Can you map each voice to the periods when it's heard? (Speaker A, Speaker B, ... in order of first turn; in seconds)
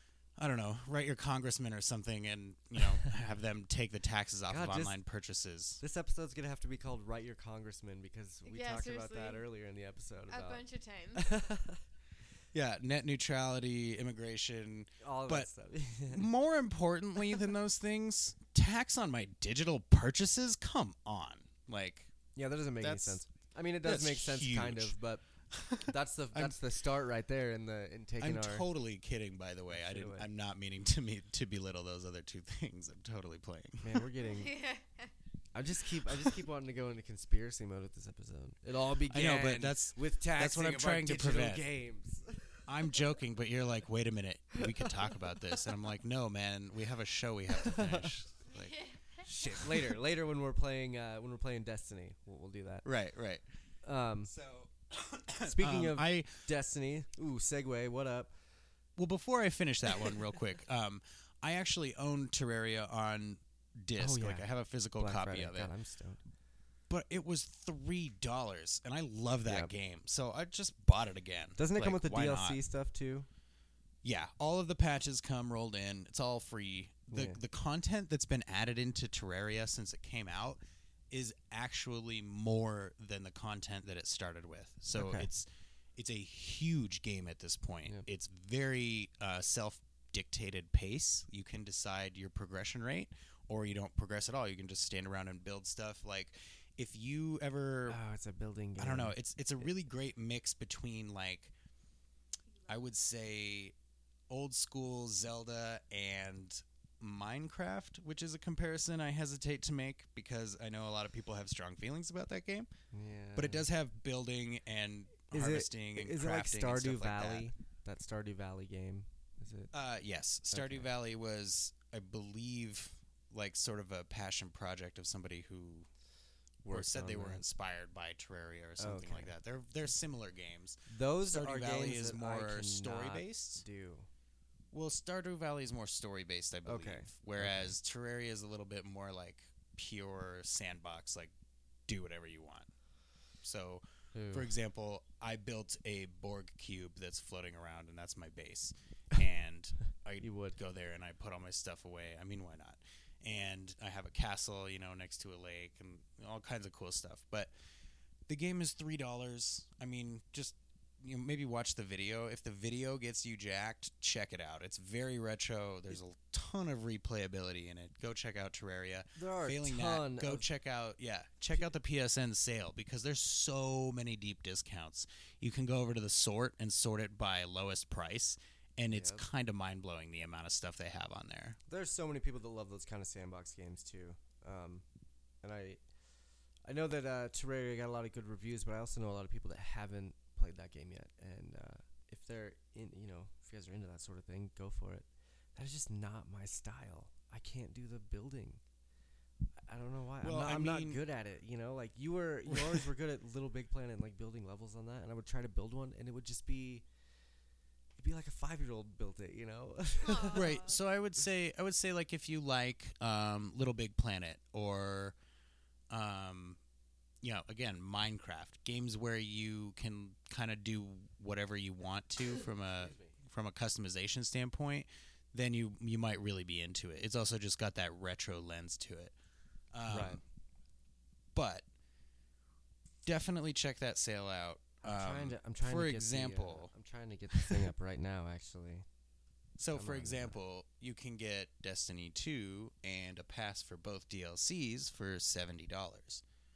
Speaker A: 0.4-5.8, 12.5-15.5, 16.1-22.1, 22.8-23.2, 23.8-25.0, 25.5-26.6, 28.2-34.1, 39.1-41.6, 42.6-49.0, 49.5-49.8, 52.9-53.4, 54.3-56.5, 59.0-65.7, 66.9-72.6, 74.0-80.6, 81.1-98.0, 98.8-101.5, 102.7-103.8, 104.3-112.7, 113.3-117.5, 119.7-125.9, 126.7-133.6, 134.7-141.3, 141.9-142.7, 143.4-157.5, 158.3-181.6, 200.2-201.0, 202.5-202.8, 210.3-215.2, 215.9-216.6, 217.2-229.1, 229.7-230.2, 231.3-231.7, 233.1-236.7, 237.3-237.6, 239.6-246.2
Speaker B: 4.5-5.0, 5.8-10.6, 11.2-11.8, 15.0-16.3, 22.4-28.7, 29.7-30.3, 33.8-34.5, 35.5-42.6, 47.6-48.1, 49.2-52.9, 53.8-54.3, 55.5-58.3, 64.0-66.2, 69.5-69.7, 71.6-73.3, 77.1-77.4, 85.0-85.3, 97.9-99.7, 112.9-113.7, 115.3-119.7, 120.5-120.9, 126.6-127.4, 128.8-129.3, 130.9-134.1, 136.7-137.8, 144.1-144.5, 150.2-150.6, 169.2-170.5, 178.9-179.2, 181.7-184.8, 185.4-185.8, 186.6-198.6, 199.6-206.9, 208.0-210.4, 222.9-223.1, 229.9-230.2, 234.8-238.9, 239.7-240.4
Speaker C: 8.5-9.5, 10.3-11.2, 34.2-35.1, 48.5-49.0, 210.0-210.8